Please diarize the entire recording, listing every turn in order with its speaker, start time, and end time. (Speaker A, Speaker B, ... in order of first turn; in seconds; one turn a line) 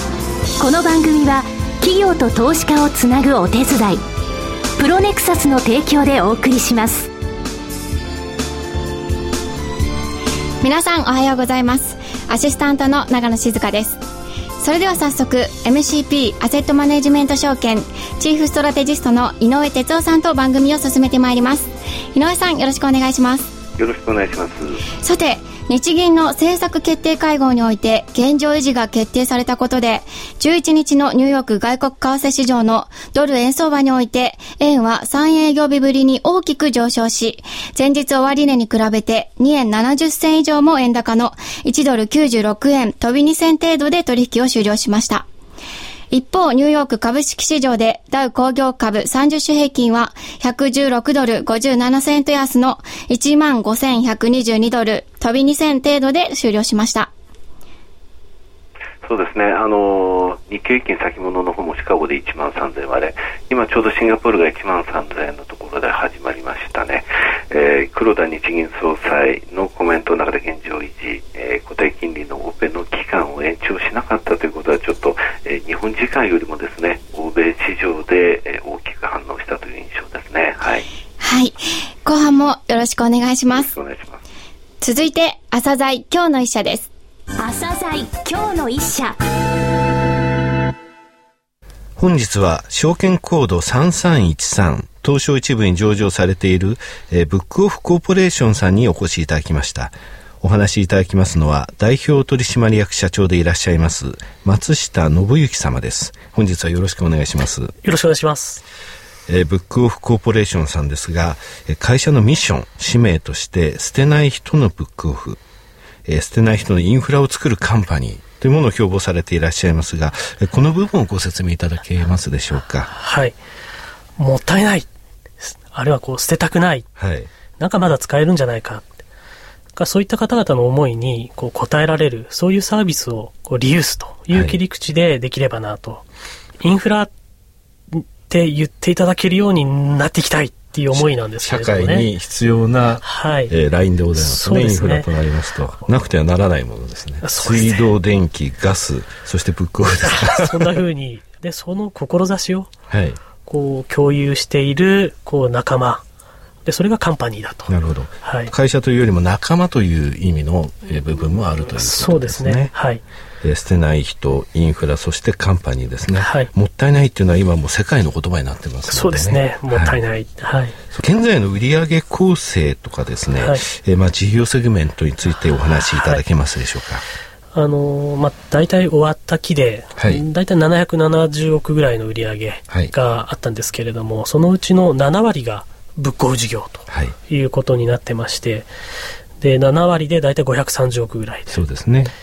Speaker A: 0.6-4.0
Speaker A: 4.8-7.1
Speaker B: 10.6-14.0
Speaker B: 14.6-23.5
Speaker C: 23.8-24.8
Speaker B: 25.0-45.3
Speaker B: 46.1-57.1
Speaker C: 59.0-80.8
Speaker B: 81.2-83.8
Speaker C: 83.5-84.2
Speaker B: 84.8-86.9
Speaker A: 87.4-89.2
Speaker D: 92.0-107.7
Speaker E: 107.8-108.6
Speaker D: 109.3-115.4
Speaker D: 116.0-122.9
Speaker E: 122.9-123.4
Speaker E: 124.2-124.9
Speaker E: 125.4-126.9
Speaker D: 127.0-127.3
Speaker E: 127.6-128.9
Speaker E: 129.8-136.0
Speaker D: 134.3-134.6
Speaker E: 136.6-137.1
Speaker E: 137.9-142.1
Speaker D: 140.9-150.8
Speaker E: 143.0-143.5
Speaker E: 144.1-145.1
Speaker E: 147.2-147.9
Speaker E: 150.0-152.7
Speaker D: 152.9-153.2
Speaker E: 153.4-156.0
Speaker E: 156.6-158.5
Speaker D: 157.7-162.7
Speaker E: 161.8-163.0
Speaker D: 163.4-170.0
Speaker E: 166.2-166.5
Speaker E: 168.9-170.8
Speaker D: 170.9-177.0
Speaker E: 173.4-173.6
Speaker E: 175.9-176.2
Speaker E: 177.5-188.7
Speaker D: 180.0-180.2
Speaker D: 186.9-187.2
Speaker E: 189.4-191.6
Speaker D: 191.5-192.1